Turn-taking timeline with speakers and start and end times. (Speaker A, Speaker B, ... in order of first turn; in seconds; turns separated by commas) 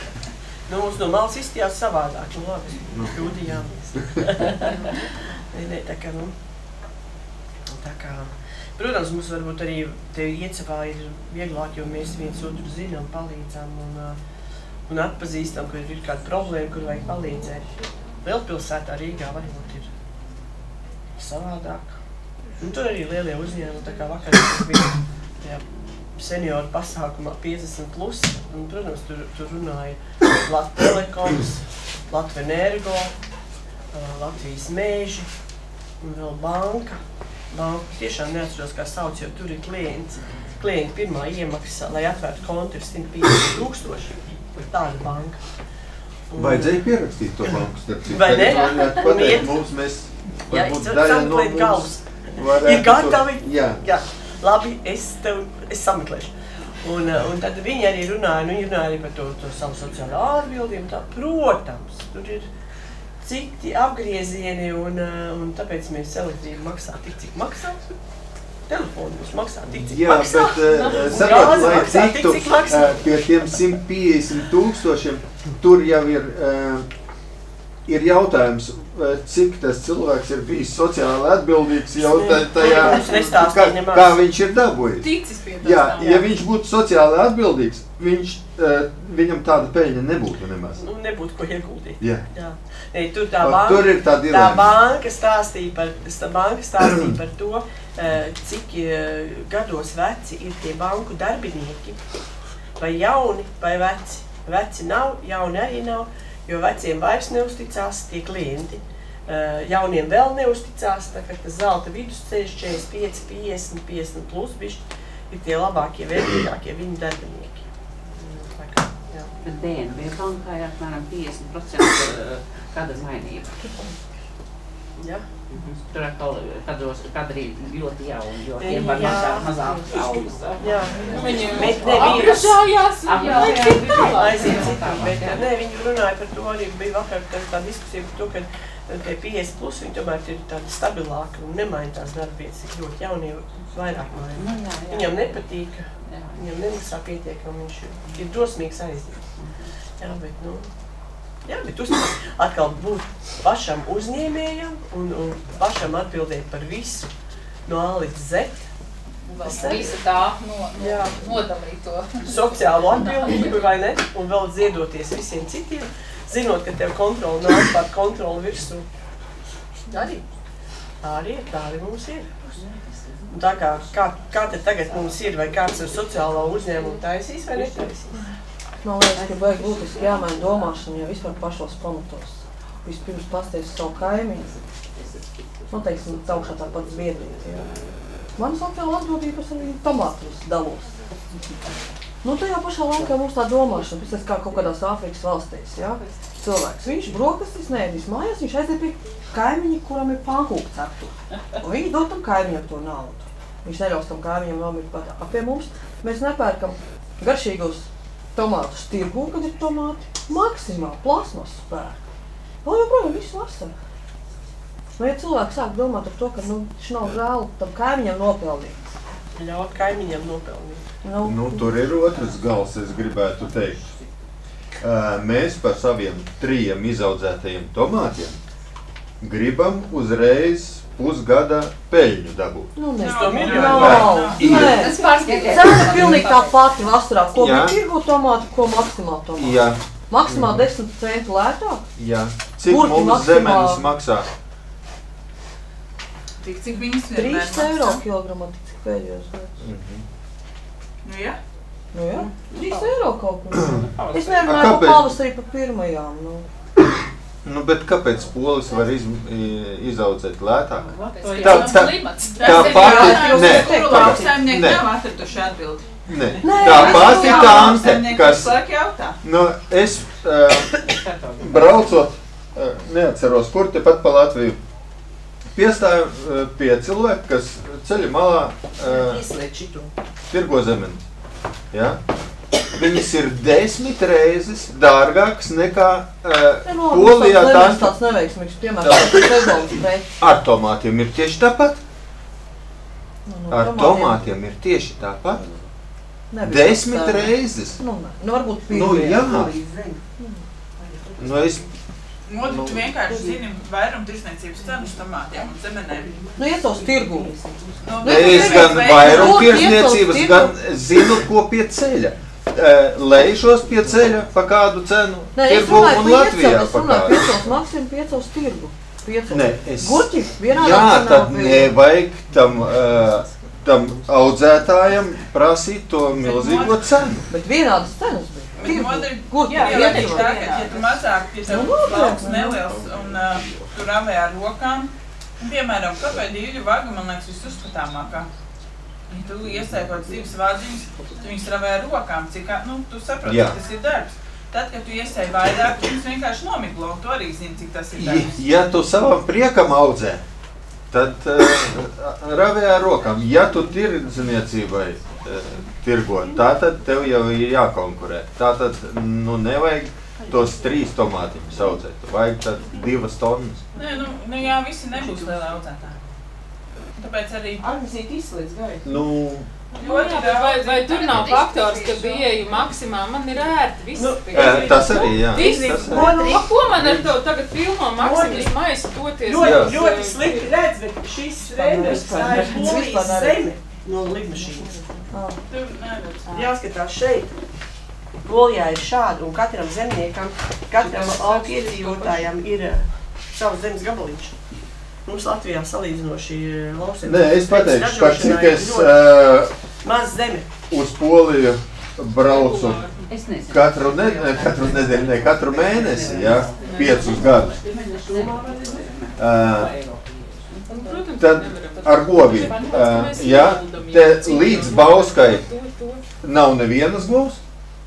Speaker A: 0.7-4.8, Speaker B: 2.9-3.2, Speaker A: 5.5-6.4, Speaker A: 7.7-14.2, Speaker A: 14.9-17.6, Speaker A: 18.2-19.9, Speaker A: 21.1-22.0, Speaker A: 22.6-25.6, Speaker A: 26.1-33.1, Speaker A: 33.9-35.3, Speaker A: 36.0-45.4, Speaker A: 46.3-46.8, Speaker B: 46.4-53.8, Speaker A: 48.1-49.6, Speaker A: 50.5-62.5, Speaker A: 63.2-68.0, Speaker A: 68.7-73.0, Speaker B: 69.8-76.9, Speaker C: 70.7-71.0, Speaker B: 77.9-90.8, Speaker A: 82.0-84.2, Speaker C: 85.0-86.3, Speaker A: 90.8-102.0, Speaker B: 93.4-94.7, Speaker A: 102.8-119.3, Speaker D: 119.4-123.7, Speaker A: 125.0-125.2, Speaker D: 125.5-135.4, Speaker A: 128.6-132.6, Speaker C: 131.0-135.0, Speaker A: 133.3-149.3, Speaker D: 144.4-145.4, Speaker D: 146.1-146.4, Speaker A: 150.0-150.7, Speaker A: 151.4-157.1, Speaker A: 157.7-158.7, Speaker E: 159.3-163.5, Speaker A: 159.4-160.0, Speaker A: 160.7-161.4, Speaker A: 162.2-168.9, Speaker A: 169.9-170.2, Speaker A: 171.0-172.4, Speaker D: 172.5-173.4, Speaker A: 173.3-178.2, Speaker F: 178.8-184.7, Speaker F: 185.7-187.7, Speaker F: 188.4-190.9, Speaker F: 192.2-212.0, Speaker F: 212.6-213.7, Speaker F: 215.0-218.9, Speaker A: 219.4-220.9, Speaker F: 221.0-221.7, Speaker B: 221.2-223.9, Speaker B: 224.8-228.4, Speaker B: 229.2-232.7, Speaker F: 232.8-241.9, Speaker G: 233.0-234.4, Speaker A: 233.0-234.1, Speaker B: 233.7-234.9, Speaker E: 234.4-236.6, Speaker B: 237.4-237.8, Speaker B: 239.4-240.7, Speaker B: 241.9-244.3, Speaker F: 242.7-243.8, Speaker G: 246.4-248.0, Speaker F: 247.1-249.6, Speaker B: 249.6-250.0, Speaker G: 251.0-251.4, Speaker F: 251.9-256.5, Speaker D: 252.1-252.9, Speaker B: 253.6-253.8, Speaker D: 253.6-254.4, Speaker B: 254.4-255.1, Speaker B: 257.4-264.9, Speaker D: 260.8-261.8, Speaker E: 261.0-264.3, Speaker G: 261.4-269.2, Speaker B: 266.1-268.6, Speaker A: 266.4-267.9, Speaker B: 269.2-274.6, Speaker D: 270.9-272.0, Speaker B: 275.5-279.2, Speaker A: 278.8-279.9, Speaker B: 280.3-281.1, Speaker B: 281.7-282.0, Speaker B: 282.7-288.1, Speaker F: 286.6-290.1, Speaker B: 288.8-291.8, Speaker F: 293.3-294.3, Speaker B: 293.5-295.4, Speaker F: 296.3-299.4, Speaker B: 296.4-297.8, Speaker B: 298.7-299.5, Speaker A: 299.3-300.0, Speaker F: 300.2-300.4, Speaker A: 300.8-301.6, Speaker B: 301.2-301.6, Speaker G: 302.3-306.1, Speaker B: 302.4-302.9, Speaker A: 306.1-308.0, Speaker F: 306.4-307.3, Speaker G: 307.8-309.8, Speaker F: 308.0-310.6, Speaker B: 308.0-317.6, Speaker F: 315.3-321.8, Speaker B: 319.3-327.3, Speaker G: 326.2-326.8, Speaker F: 327.3-330.4, Speaker G: 328.6-338.3, Speaker C: 329.5-330.4, Speaker A: 329.5-329.9, Speaker F: 331.4-332.7, Speaker G: 339.1-348.4, Speaker B: 343.3-343.6, Speaker B: 348.0-350.2, Speaker B: 350.9-363.6, Speaker G: 363.7-366.0, Speaker G: 367.0-367.7, Speaker A: 367.6-368.9, Speaker B: 368.9-369.5, Speaker G: 369.7-371.2, Speaker C: 369.7-380.5, Speaker E: 370.9-372.3, Speaker A: 373.9-376.4, Speaker B: 374.3-376.2, Speaker B: 376.7-377.1, Speaker A: 378.0-378.6, Speaker A: 379.2-384.8, Speaker B: 379.4-379.7, Speaker G: 381.4-381.9, Speaker D: 381.7-382.8, Speaker F: 382.1-383.4, Speaker F: 385.1-385.4, Speaker G: 385.5-386.5, Speaker A: 386.3-387.3, Speaker A: 388.2-394.4, Speaker C: 390.8-392.2, Speaker A: 395.1-399.1, Speaker B: 397.1-399.5, Speaker A: 399.8-400.6, Speaker B: 400.7-402.9, Speaker C: 402.2-403.1, Speaker D: 403.1-411.0, Speaker B: 403.5-407.6, Speaker G: 406.6-407.2, Speaker G: 408.2-408.7, Speaker B: 409.2-409.8, Speaker C: 410.7-416.1, Speaker B: 411.1-415.4, Speaker B: 416.2-417.4